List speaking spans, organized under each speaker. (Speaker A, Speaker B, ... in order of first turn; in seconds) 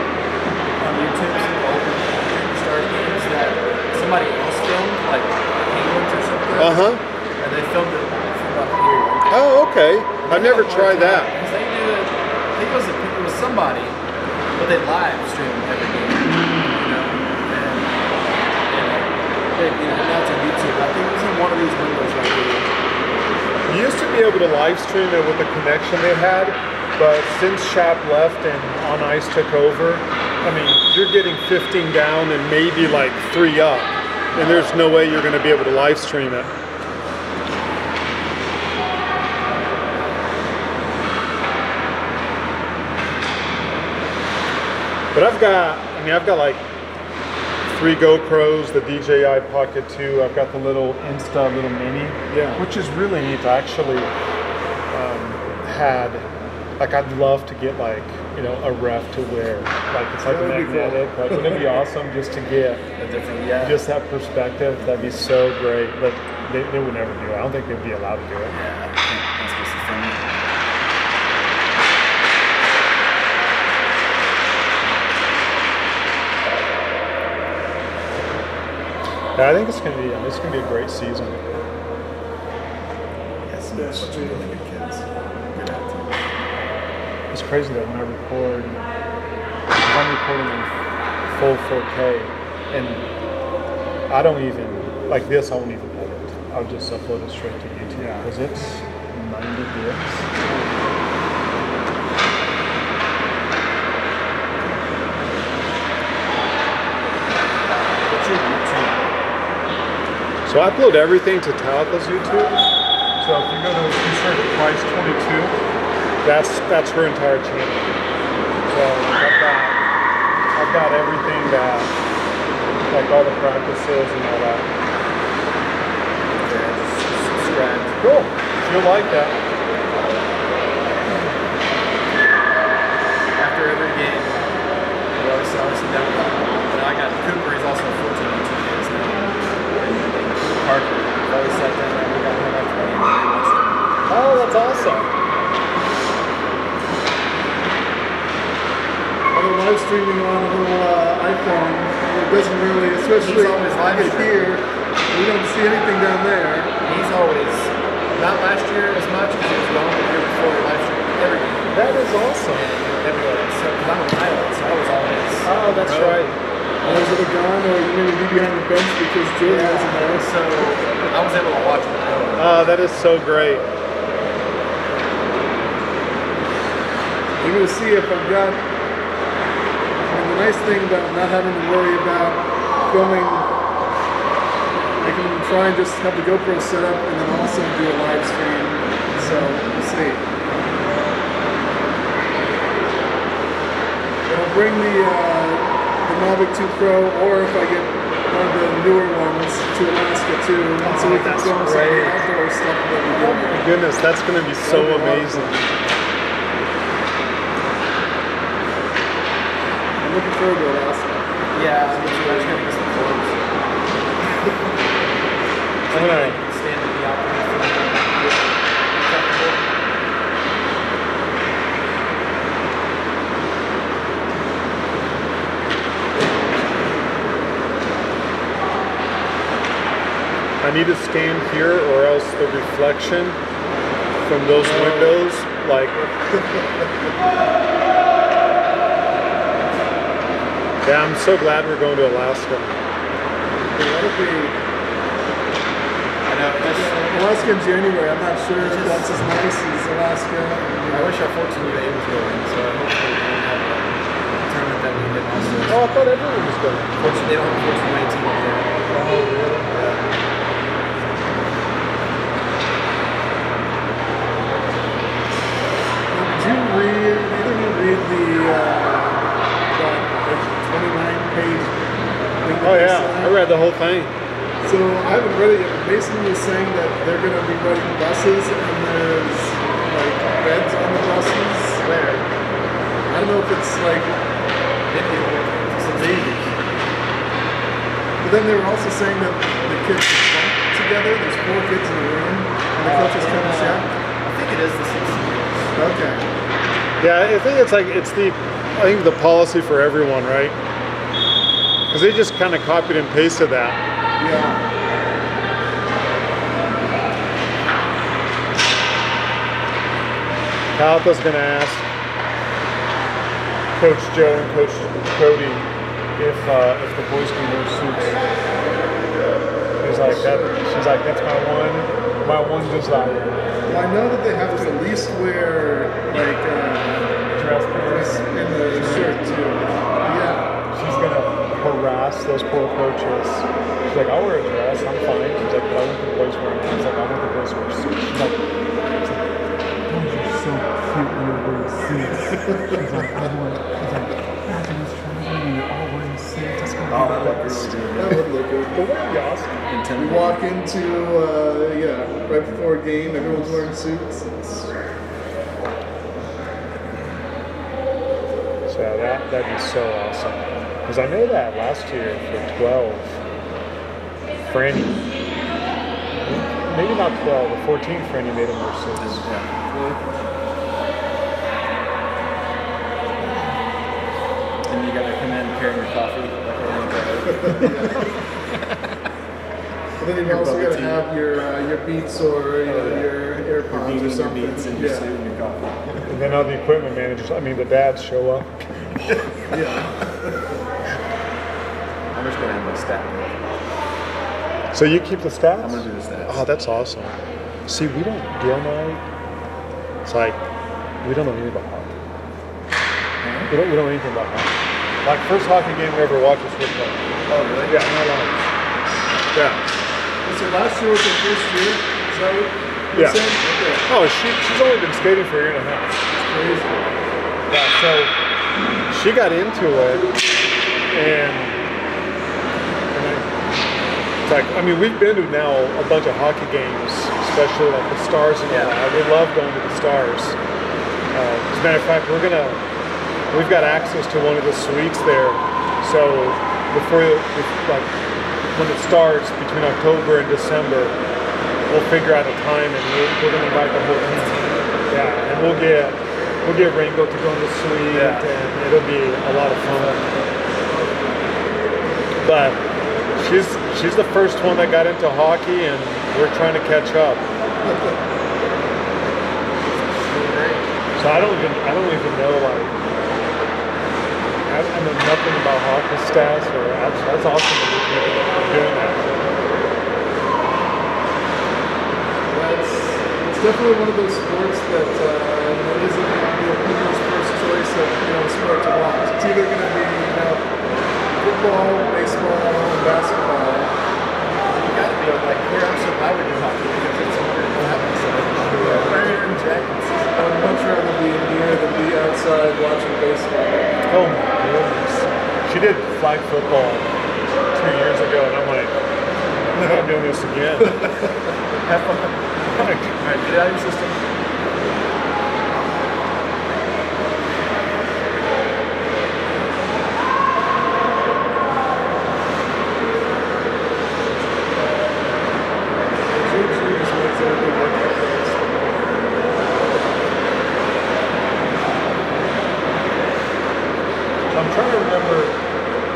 Speaker A: 0.8-6.9, 7.4-9.4, 10.2-14.0, 14.6-18.1, 18.7-22.8, 63.0-63.8, 68.5-70.6, 83.5-86.2, 108.1-109.1, 126.3-128.0, 133.4-134.4, 135.2-145.1, 153.2-154.5, 156.8-161.8, 163.0-167.1, 169.4-172.7, 211.5-213.7, 215.9-219.7, 246.3-247.1, 248.6-249.1, 250.9-255.8, 257.0-258.7, 281.8-282.3, 284.9-286.5, 292.8-295.7, 346.9-348.7, 349.7-350.4, 369.0-370.0, 374.7-378.1, 380.2-381.0, 382.6-383.1, 383.6-386.1, 392.1-393.6, 395.6-396.4, 403.2-403.5, 407.3-407.8, 428.5-428.8, 444.1-444.7, 447.9-448.3, 449.7-450.3, 459.6-460.7, 484.5-490.0, 501.6-504.0
Speaker B: 6.6-7.0, 9.3-11.3, 16.2-16.8, 23.7-36.5, 45.1-46.7, 47.7-54.1, 54.9-56.3, 56.8-62.8, 63.6-68.6, 79.3-81.4, 87.3-88.9, 89.7-90.7, 91.3-93.1, 94.1-100.3, 110.5-112.6, 113.2-115.6, 116.2-118.0, 118.7-119.8, 120.5-121.9, 122.9-124.7, 128.0-129.4, 144.1-145.1, 161.7-162.9, 165.4-166.4, 172.4-173.7, 200.8-202.2, 203.2-205.6, 215.9-216.4, 230.6-233.4, 234.2-236.0, 240.8-242.7, 255.7-257.3, 258.9-259.7, 272.6-274.1, 297.0-300.6, 301.9-303.8, 310.8-311.9, 313.8-318.2, 319.8-323.4, 327.4-329.4, 330.7-338.4, 339.0-339.3, 339.9-347.7, 348.7-349.6, 358.7-363.2, 364.5-365.0, 366.2-369.3, 386.1-388.7, 394.7-399.0, 400.1-400.5, 401.0-402.0, 403.5-404.5, 405.0-407.1, 407.7-408.4, 409.3-409.6, 412.9-413.2, 413.9-416.0, 417.5-418.1, 418.9-420.1, 420.9-421.6, 422.9-423.3, 424.3-430.4, 431.1-432.6, 433.3-437.9, 438.5-441.0, 441.7-450.1, 452.2-452.6, 453.1-457.2, 461.0-462.9, 464.5-469.1, 493.9-496.9, 497.5-498.7, 499.5-500.9, 502.6-503.0, 524.3-525.4
Speaker C: 60.2-61.7, 83.8-84.4, 98.0-98.3, 149.3-156.7, 166.8-170.3, 177.4-178.7, 180.1-183.5, 185.0-190.3, 194.3-203.7, 204.6-205.8, 210.0-211.2, 211.8-212.6, 234.6-235.2, 243.7-244.6, 246.7-251.2, 266.1-271.8, 272.4-273.4, 274.6-281.9, 283.1-284.2, 288.2-293.9, 295.8-296.2, 304.2-304.6, 319.8-320.6, 323.7-327.1, 327.7-330.4, 348.0-348.3, 350.0-354.7, 380.0-385.1, 389.5-390.3, 410.2-413.9, 416.2-416.9, 472.3-480.4, 481.2-483.7, 488.6-489.0, 490.1-493.7, 516.2-518.6